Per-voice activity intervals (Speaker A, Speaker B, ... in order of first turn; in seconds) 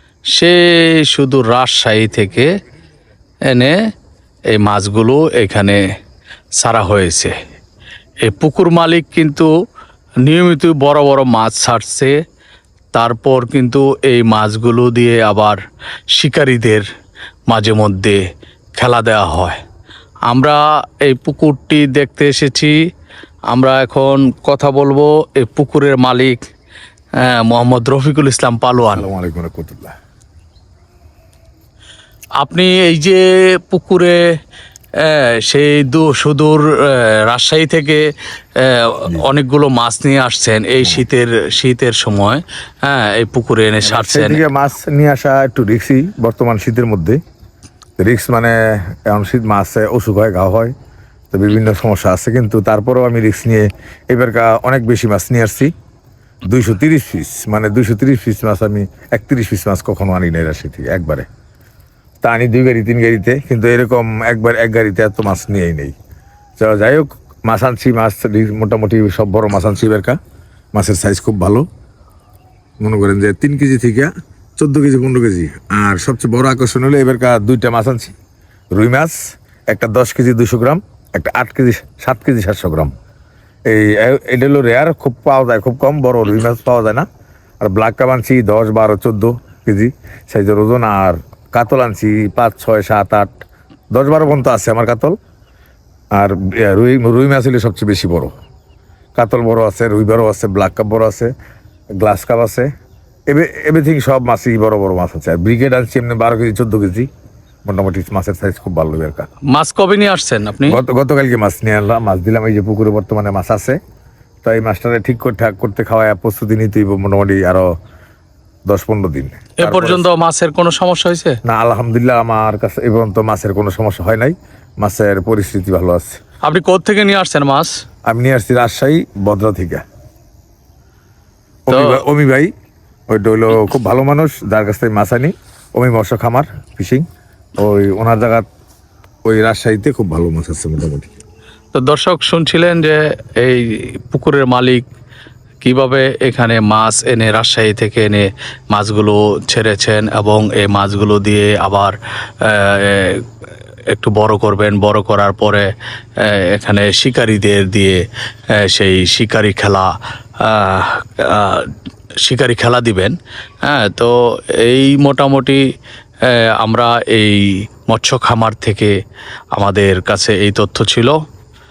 Speaker A: 0.3-2.5, 3.5-3.8, 4.5-5.8, 6.6-7.3, 8.2-9.5, 10.2-12.2, 12.9-15.6, 16.1-16.9, 17.5-18.2, 18.8-19.6, 20.3-22.8, 23.5-26.4, 27.1-29.1, 32.4-34.2, 35.0-38.0, 38.6-44.4, 109.5-110.8, 119.6-121.4, 126.4-127.8, 131.7-132.0, 141.7-144.8, 145.6-153.3, 153.9-165.7, 166.2-169.0, 169.5-171.2
Speaker B: 28.9-29.9, 43.9-47.2, 48.0-50.7, 51.3-55.7, 56.5-61.3, 62.2-65.9, 66.6-70.2, 70.7-71.7, 72.8-78.1, 78.7-82.9, 83.7-87.1, 87.6-93.3, 93.9-95.2, 96.1-98.3, 99.2-101.3, 102.0-102.7, 103.3-107.1, 107.7-109.3, 110.7-113.8, 114.4-117.7, 118.7-120.1, 121.5-126.2, 128.1-129.8, 131.7-132.5, 133.1-137.1, 137.6-138.4, 139.2-141.1